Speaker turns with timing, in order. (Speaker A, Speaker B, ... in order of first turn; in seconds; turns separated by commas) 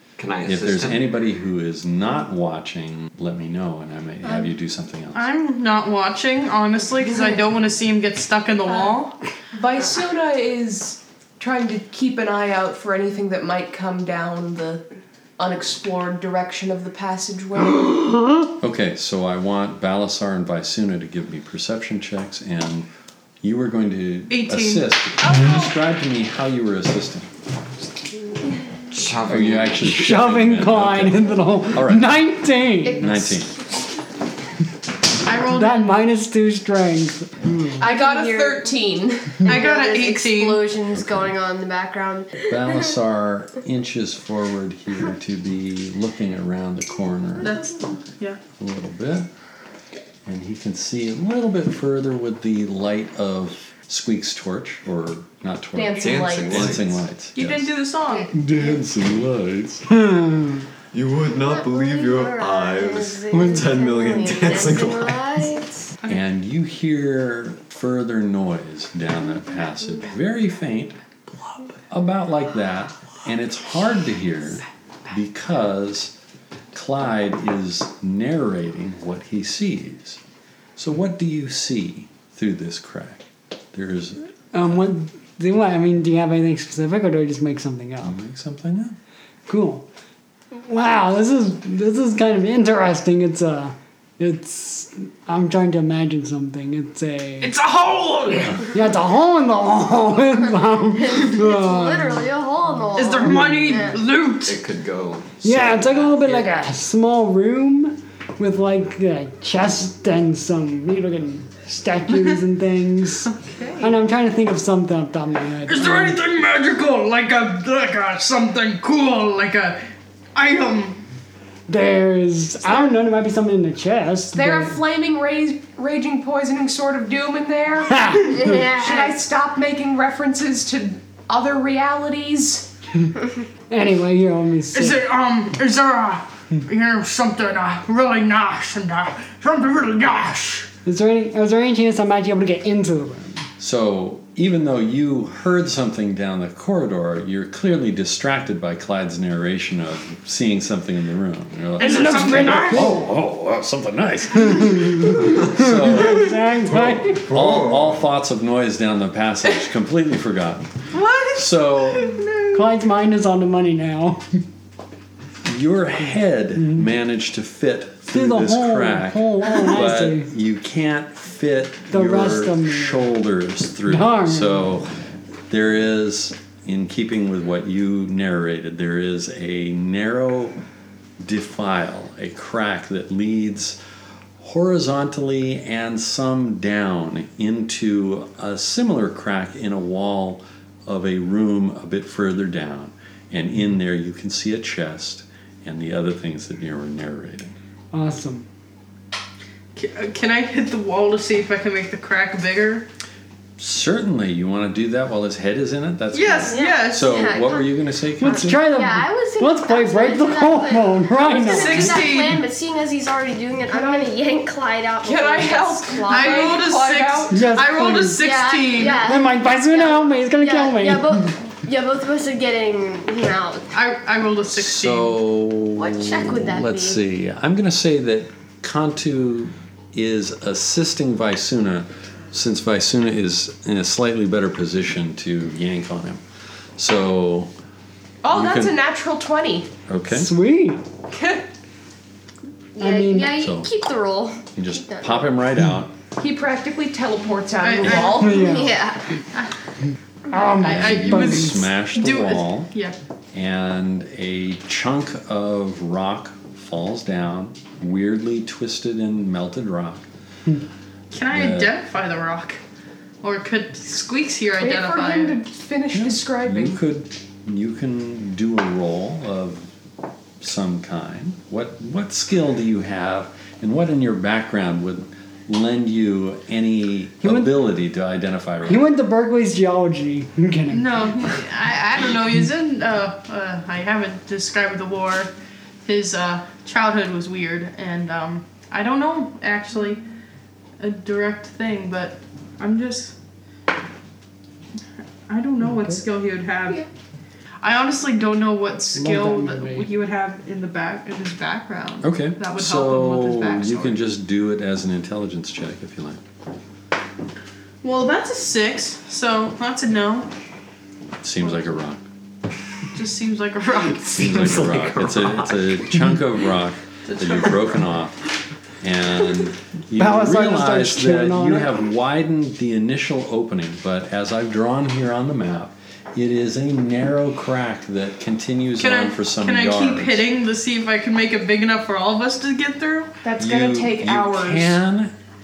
Speaker A: 0.2-1.1, Speaker B: 0.4-5.3, Speaker C: 5.1-9.1, Speaker D: 9.5-14.8, Speaker D: 15.4-17.9, Speaker B: 18.6-22.9, Speaker B: 23.4-27.3, Speaker C: 24.3-24.9, Speaker D: 25.2-25.7, Speaker A: 28.9-29.8, Speaker B: 29.2-32.2, Speaker E: 29.8-33.3, Speaker B: 33.0-33.6, Speaker C: 35.2-36.0, Speaker E: 35.5-37.9, Speaker D: 37.8-39.5, Speaker F: 37.8-38.7, Speaker F: 39.4-42.5, Speaker C: 39.4-40.7, Speaker B: 40.9-41.3, Speaker B: 42.5-47.6, Speaker C: 47.4-48.4, Speaker B: 48.6-49.3, Speaker B: 50.2-57.7, Speaker D: 55.7-56.8, Speaker A: 56.0-57.0, Speaker C: 57.3-58.3, Speaker B: 58.3-59.9, Speaker E: 60.0-60.6, Speaker A: 60.9-65.4, Speaker F: 61.4-65.9, Speaker B: 66.1-71.0, Speaker B: 71.9-76.1, Speaker B: 76.7-80.2, Speaker B: 80.8-84.8, Speaker E: 84.5-88.2, Speaker B: 88.0-89.0, Speaker E: 89.5-89.8, Speaker E: 90.5-97.5, Speaker C: 97.4-98.7, Speaker E: 98.7-102.3, Speaker F: 101.0-104.0, Speaker C: 103.0-104.6, Speaker E: 103.2-103.8, Speaker A: 104.4-105.8, Speaker E: 105.4-116.2, Speaker C: 113.3-113.9, Speaker C: 115.7-119.8, Speaker C: 120.3-121.0, Speaker E: 121.7-124.8, Speaker D: 124.3-132.7, Speaker E: 127.9-128.6, Speaker F: 128.3-129.2, Speaker E: 133.7-135.0, Speaker C: 134.7-140.7, Speaker E: 140.8-143.5, Speaker B: 143.6-160.7, Speaker C: 151.8-152.9, Speaker E: 151.8-153.0, Speaker E: 154.4-157.3, Speaker A: 157.2-158.0, Speaker C: 160.9-162.5, Speaker B: 161.3-162.2, Speaker E: 162.5-164.3, Speaker B: 165.4-174.9, Speaker E: 166.6-166.9, Speaker E: 168.1-170.3, Speaker E: 171.9-173.2, Speaker E: 173.9-174.7, Speaker B: 175.5-180.6, Speaker B: 181.2-183.8, Speaker B: 184.4-197.6, Speaker E: 197.9-198.5, Speaker C: 199.8-202.9, Speaker B: 203.6-208.7, Speaker C: 206.1-207.1, Speaker F: 206.5-216.6, Speaker E: 208.2-212.0, Speaker C: 211.4-212.5, Speaker D: 213.7-214.2, Speaker D: 215.0-217.5, Speaker C: 216.1-219.1, Speaker E: 217.3-221.3, Speaker F: 218.1-223.7, Speaker C: 223.7-225.2, Speaker B: 224.5-236.2, Speaker F: 225.8-227.0, Speaker B: 236.8-237.5, Speaker D: 238.2-239.7, Speaker B: 238.3-238.8, Speaker B: 239.9-240.3, Speaker E: 240.1-240.8, Speaker D: 241.1-241.4, Speaker F: 242.8-245.3, Speaker E: 242.8-243.3, Speaker B: 243.3-243.7, Speaker B: 244.5-245.9, Speaker D: 246.2-248.6, Speaker C: 247.6-248.3, Speaker E: 247.8-248.8, Speaker F: 248.1-249.1, Speaker E: 250.3-251.6, Speaker C: 250.6-253.0, Speaker B: 250.6-252.7, Speaker B: 253.3-260.1, Speaker C: 261.1-262.6, Speaker B: 261.3-261.7, Speaker C: 263.2-265.4, Speaker D: 264.6-266.8, Speaker B: 265.9-269.7, Speaker B: 270.4-278.9, Speaker E: 277.2-277.6, Speaker E: 278.6-281.3, Speaker C: 280.7-285.3, Speaker C: 285.8-290.0, Speaker C: 290.8-293.1, Speaker C: 295.3-296.9, Speaker E: 295.6-296.0, Speaker C: 297.6-304.0, Speaker E: 298.9-299.9, Speaker B: 302.0-306.2, Speaker C: 307.8-310.3, Speaker B: 311.2-312.0, Speaker C: 312.9-314.6, Speaker B: 314.2-318.2, Speaker A: 314.2-315.5, Speaker C: 317.1-317.7, Speaker B: 318.8-330.2, Speaker E: 319.9-321.8, Speaker C: 328.8-333.1, Speaker D: 333.2-334.8, Speaker B: 333.4-335.1